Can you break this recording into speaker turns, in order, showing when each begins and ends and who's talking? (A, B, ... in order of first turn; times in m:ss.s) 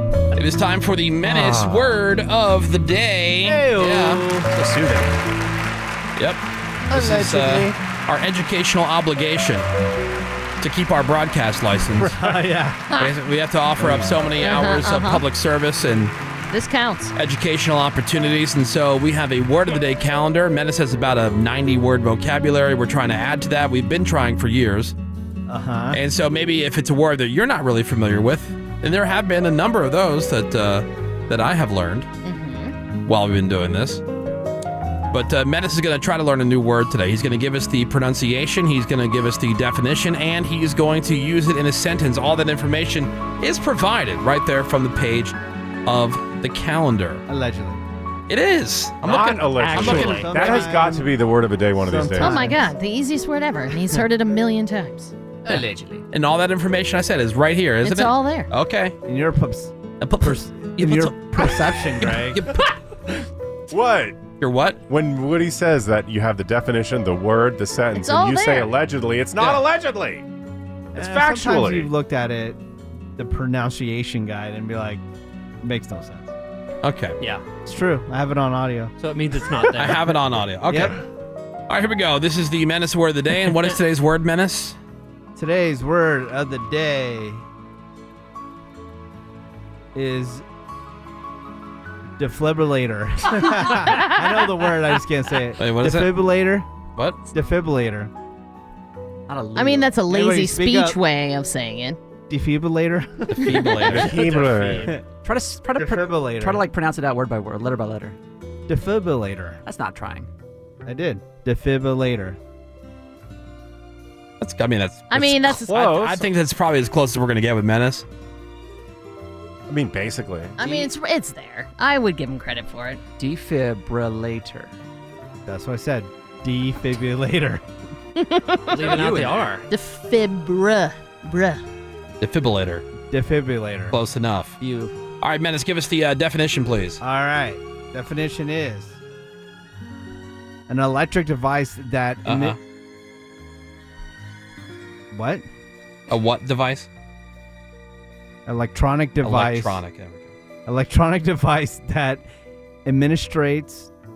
0:00.3-0:04.2 A
0:01.2-0:01.9 B
0:03.4-0:04.5 C
0:04.5-0:05.1 D
0:06.2-0:09.7 A
0:06.9-0:07.7 C
0:10.6-0:12.4 A
0:12.0-0:12.8 C
0:12.9-0:16.1 A
0:14.4-0:15.2 E
0:16.5-0:17.1 E
0:17.2-0:24.9 A
0:25.5-0:26.0 C
0:25.9-0:32.1 A
0:32.2-0:32.7 E
0:33.0-0:34.0 A
0:35.1-0:45.3 A
0:45.8-0:47.2 A
0:47.3-0:47.8 C
0:48.3-0:50.3 A
0:49.0-0:52.5 B
0:49.1-0:50.6 F
0:49.6-0:51.2 C
0:51.8-0:52.7 C
0:52.1-0:55.1 E
0:55.4-0:56.0 D
0:56.1-0:59.0 A
0:57.8-0:58.5 E
0:59.0-1:02.4 C
1:00.0-1:02.6 A
1:03.7-1:04.2 B
1:04.4-1:04.8 A
1:04.9-1:10.2 B
1:07.9-1:08.7 E
1:10.9-1:12.6 C
1:11.0-1:11.9 B
1:13.2-1:15.0 C
1:15.6-1:16.3 C
1:16.8-1:17.2 A
1:17.6-1:18.9 C
1:19.0-1:20.2 F
1:19.8-1:21.0 A
1:20.6-1:21.0 C
1:21.7-1:24.8 A
1:25.4-1:27.4 C
1:29.9-1:30.4 C
1:32.2-1:36.7 C
1:35.6-1:36.2 A
1:37.3-1:38.1 C
1:39.3-1:40.0 D
1:39.5-1:42.0 E
1:40.1-1:41.0 C
1:42.3-1:44.0 C
1:43.3-1:44.1 A
1:43.8-1:44.9 B
1:43.9-1:45.0 F
1:44.8-1:45.0 C
1:45.2-1:48.2 D
1:45.7-1:46.7 C
1:48.7-1:49.6 C
1:49.6-1:50.3 D
1:50.8-1:52.4 C
1:54.4-1:58.0 A
1:55.1-1:55.9 E
1:55.7-1:56.3 B
1:59.7-2:00.6 B
2:00.6-2:03.0 E
2:03.2-2:04.7 D
2:05.4-2:07.6 C
2:08.2-2:09.0 E
2:08.7-2:09.7 F
2:08.8-2:09.5 D
2:09.7-2:11.6 E
2:12.2-2:12.8 A
2:13.1-2:14.0 C
2:13.9-2:14.6 A
2:14.6-2:14.9 D
2:15.2-2:17.0 A
2:17.0-2:19.0 C
2:20.7-2:22.6 C
2:22.2-2:22.6 A
2:25.1-2:25.4 C
2:26.1-2:26.9 A
2:28.4-2:29.8 C
2:29.2-2:30.3 A
2:30.6-2:32.2 C
2:32.8-2:33.9 C